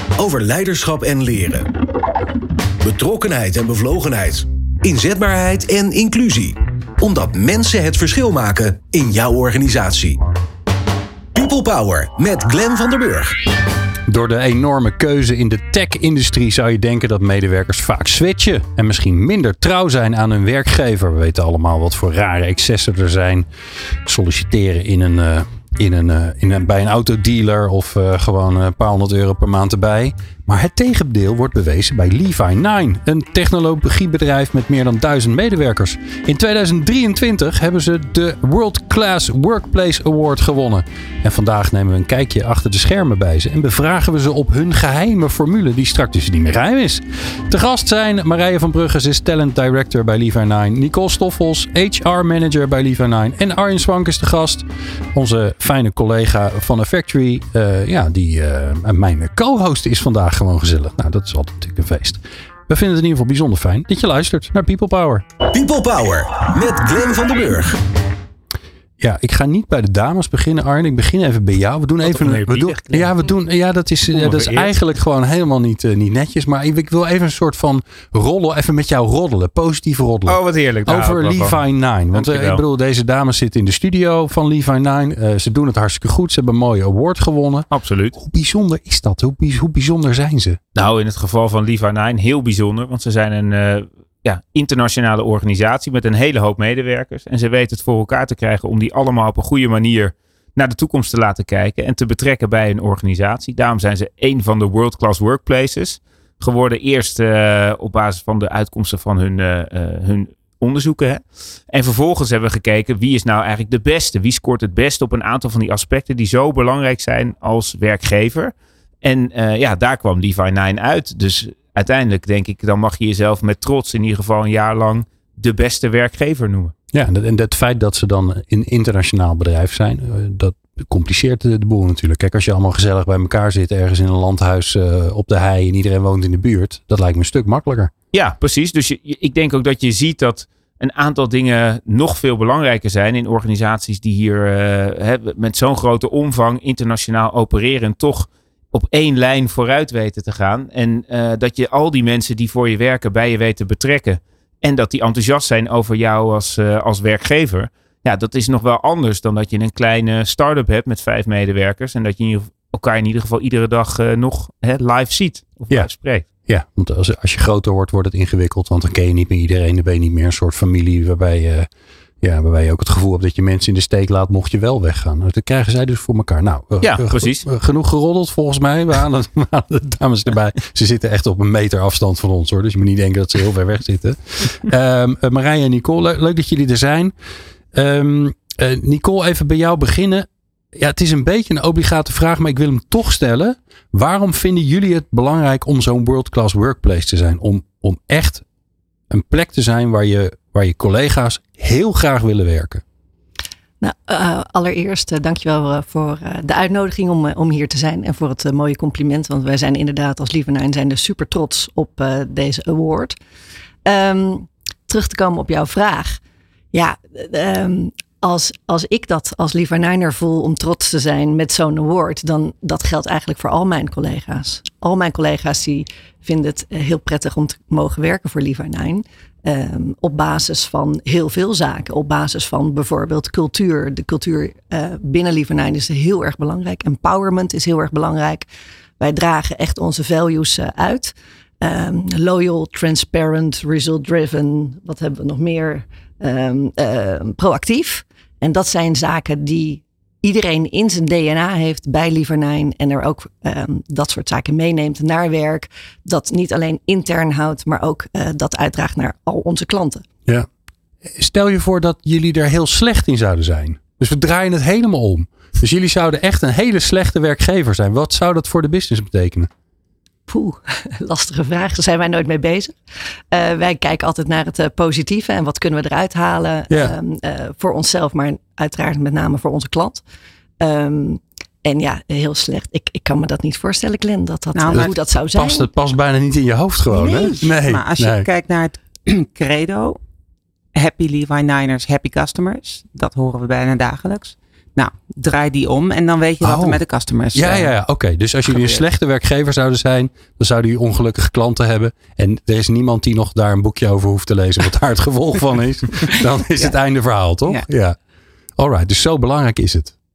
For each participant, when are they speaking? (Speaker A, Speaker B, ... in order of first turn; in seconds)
Speaker A: 0.2-1.7, 2.8-10.2, 11.3-13.3, 65.5-67.8
Speaker B: 14.1-23.5, 24.0-65.2, 69.0-90.6, 126.9-137.9, 166.4-171.7, 172.2-187.1, 187.7-198.4, 199.1-202.8, 261.0-269.5, 276.7-276.9, 284.7-288.3, 296.4-296.8, 297.3-307.9, 308.6-309.9
Speaker C: 72.0-73.1, 74.1-74.7, 80.2-81.6, 82.1-82.6, 87.7-88.2, 90.7-126.7, 138.1-166.2, 176.8-177.4
Speaker D: 203.8-213.1, 213.8-216.2, 216.7-238.5, 239.0-260.0, 270.3-272.8, 273.3-280.0, 280.6-285.7
Speaker E: 284.5-284.9, 286.9-290.0, 290.7-297.7, 298.5-298.8, 306.1-306.7